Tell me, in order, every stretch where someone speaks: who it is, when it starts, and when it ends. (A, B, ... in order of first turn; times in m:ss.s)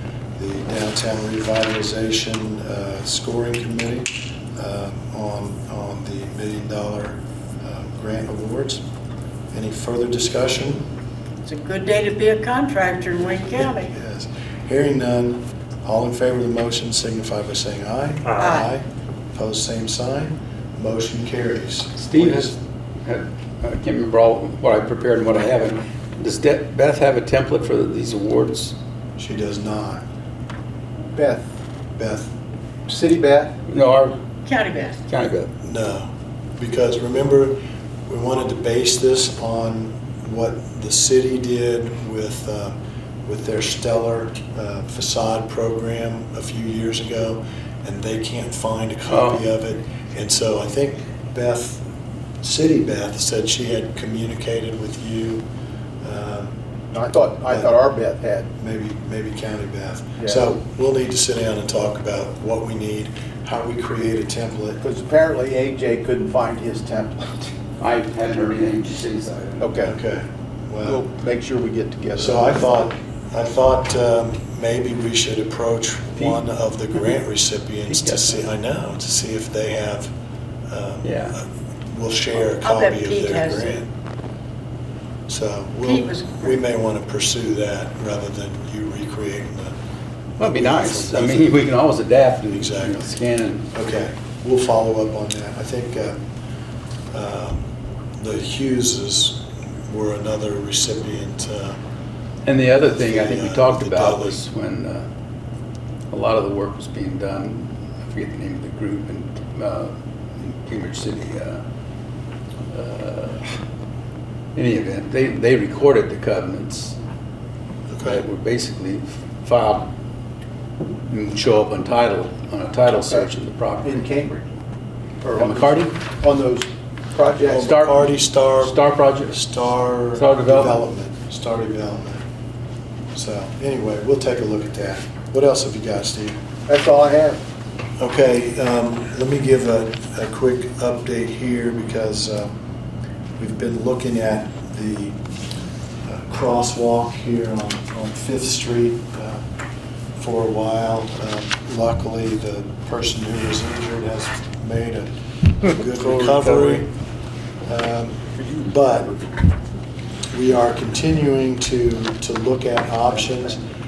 0:00.4-0:08.8 A
0:09.5-0:10.9 A
0:11.4-0:13.9 B
0:13.3-0:22.6 A
0:18.4-0:18.7 B
0:22.0-0:28.7 C
0:29.2-0:30.0 A
0:31.1-0:31.5 D
0:32.0-0:32.3 A
0:32.9-0:33.6 D
0:33.7-0:34.2 C
0:34.5-0:35.0 B
0:35.1-0:35.5 C
0:35.6-0:51.8 A
0:49.1-0:49.4 C
0:52.4-0:55.4 A
0:56.0-0:56.5 A
0:56.9-0:58.5 D
0:58.6-1:04.8 A
1:00.2-1:00.5 D
1:04.8-1:07.5 D
1:07.8-1:09.8 C
1:09.6-1:09.9 D
1:09.8-1:11.0 A
1:10.8-1:12.7 D
1:12.2-1:20.1 A
1:17.9-1:18.4 C
1:20.7-1:23.9 A
1:21.0-1:21.3 C
1:22.6-1:23.8 B
1:25.3-1:29.7 A
1:25.8-1:26.5 B
1:30.4-1:31.6 A
1:30.4-1:33.7 C
1:32.5-1:33.1 A
1:33.7-1:36.2 A
1:37.1-1:37.6 A
1:38.2-1:41.8 A
1:42.4-1:45.0 C
1:42.8-1:44.4 A
1:46.1-1:51.6 C
1:52.7-1:53.6 C
1:54.5-1:57.0 C
1:57.9-1:58.2 A
1:58.0-1:59.9 C
2:01.1-2:03.9 C
2:02.9-2:03.3 D
2:03.8-2:04.4 D
2:05.2-2:07.7 D
2:05.3-2:06.0 C
2:07.5-2:12.2 A
2:07.5-2:09.4 C
2:10.1-2:10.8 C
2:13.1-2:16.4 A
2:16.7-2:17.4 D
2:18.0-2:22.6 A
2:23.4-2:25.2 A
2:26.0-2:29.4 A
2:30.2-2:35.1 A
2:35.6-2:36.9 A
2:36.0-2:36.5 C
2:37.6-2:39.1 A
2:40.3-2:43.6 A